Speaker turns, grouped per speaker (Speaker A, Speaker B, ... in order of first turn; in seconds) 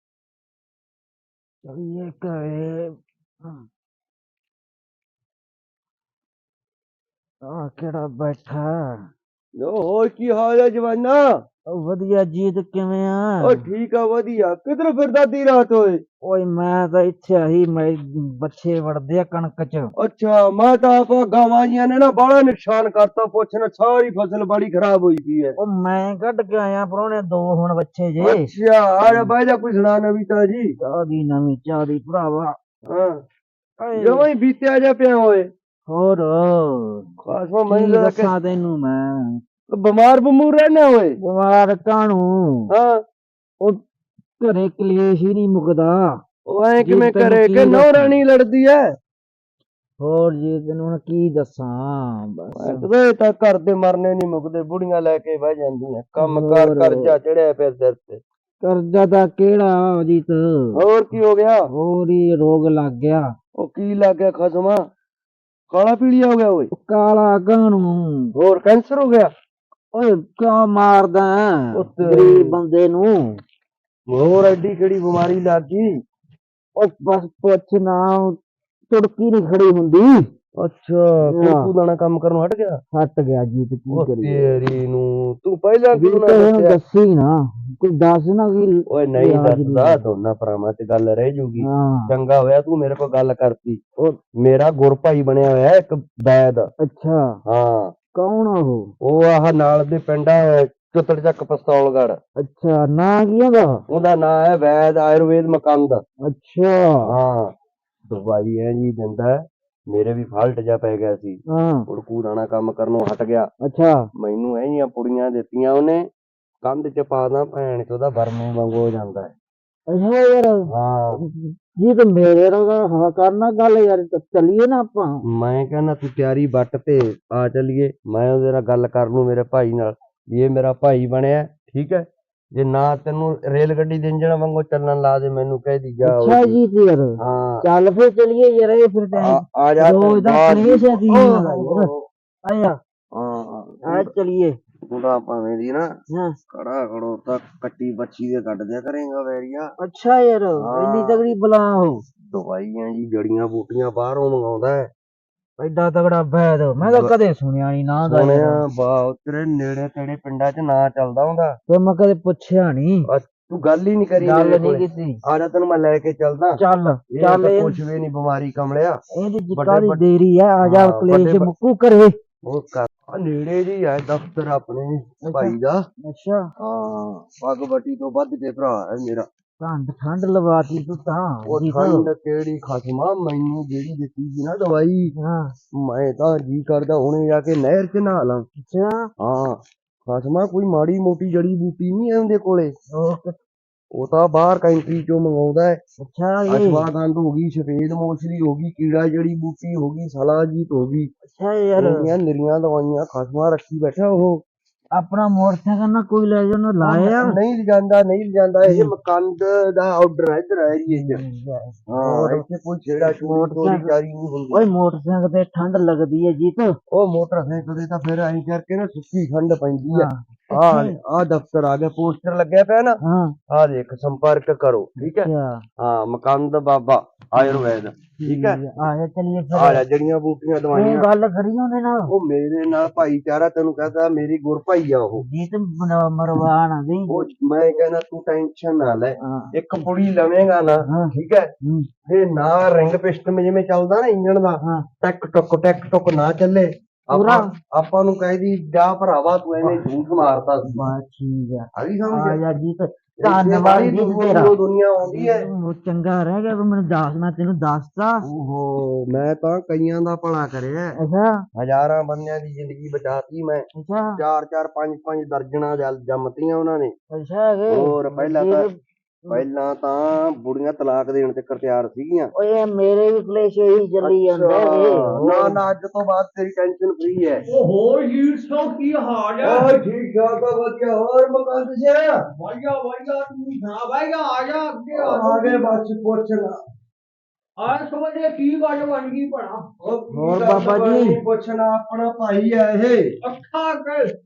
Speaker A: 1.6-3.7, 7.4-9.1, 11.7-13.6, 16.2-19.9, 25.6-28.5, 29.0-29.3, 30.8-32.6, 33.8-34.3, 35.9-37.1, 37.7-39.4, 41.2-42.7, 44.4-46.2, 46.8-48.2, 50.0-52.9, 56.2-57.1, 58.6-60.8, 61.7-63.3, 66.7-68.3, 69.9-73.4, 76.8-78.4, 78.9-80.3, 81.3-81.7, 82.9-84.5, 85.9-90.0, 91.6-92.1, 96.8-97.4, 98.2-98.9, 102.4-103.8, 106.2-107.1, 111.5-111.9, 113.6-114.1, 119.9-125.2, 136.0-141.9, 142.4-142.8, 143.8-144.6, 146.1-146.4, 149.8-152.0, 155.6-158.6, 161.7-163.1, 164.2-165.2, 166.6-167.8, 169.2-172.2, 175.2-176.5, 179.6-182.1, 185.2-185.6, 188.6-189.1, 192.9-193.4, 196.0-196.9, 201.2-202.1, 204.9-207.4, 208.6-208.9, 210.9-212.4, 213.1-213.9, 214.5-216.8, 219.9-221.0, 223.0-223.4, 225.1-225.6, 227.4-229.8, 230.7-232.1, 235.2-237.3, 239.2-239.5, 240.9-241.9, 247.1-247.5, 250.6-258.2, 260.9-261.4, 263.8-264.2, 267.1-269.4, 272.4-275.6, 290.1-291.2
Speaker B: 9.6-11.3, 13.4-16.0, 20.0-25.6, 28.2-30.7, 32.9-33.2, 33.9-35.5, 37.2-38.3, 39.7-41.2, 42.7-43.0, 46.5-49.0, 52.5-58.2, 60.7-61.7, 63.6-64.8, 65.7-66.7, 68.4-69.3, 71.7-72.6, 74.1-75.9, 80.6-82.8, 83.9-86.8, 88.9-96.7, 97.5-98.0, 99.0-102.2, 103.9-106.0, 107.0-107.5, 108.1-113.5, 114.2-116.1, 116.6-119.3, 120.7-121.2, 125.2-136.6, 137.2-137.7, 139.2-142.1, 143.1-144.1, 144.9-145.9, 146.5-149.7, 150.6-151.2, 152.3-154.9, 156.8-157.1, 158.1-161.6, 163.1-166.6, 167.1-169.0, 169.6-170.0, 170.6-171.5, 172.4-175.8, 176.6-179.3, 181.5-185.1, 185.7-188.5, 189.2-192.8, 193.9-195.8, 196.5-201.1, 201.8-204.4, 206.8-211.2, 211.9-214.7, 216.9-228.6, 229.5-231.1, 232.1-235.2, 237.1-241.5, 242.1-250.9, 251.8-252.4, 253.2-255.5, 258.2-261.0, 261.6-266.9, 267.7-268.7, 269.3-272.3, 274.0-277.4, 279.4-282.2, 284.9-286.6, 289.8-293.1
Speaker C: 277.4-279.7, 282.4-285.7, 287.6-289.7, 293.2-294.1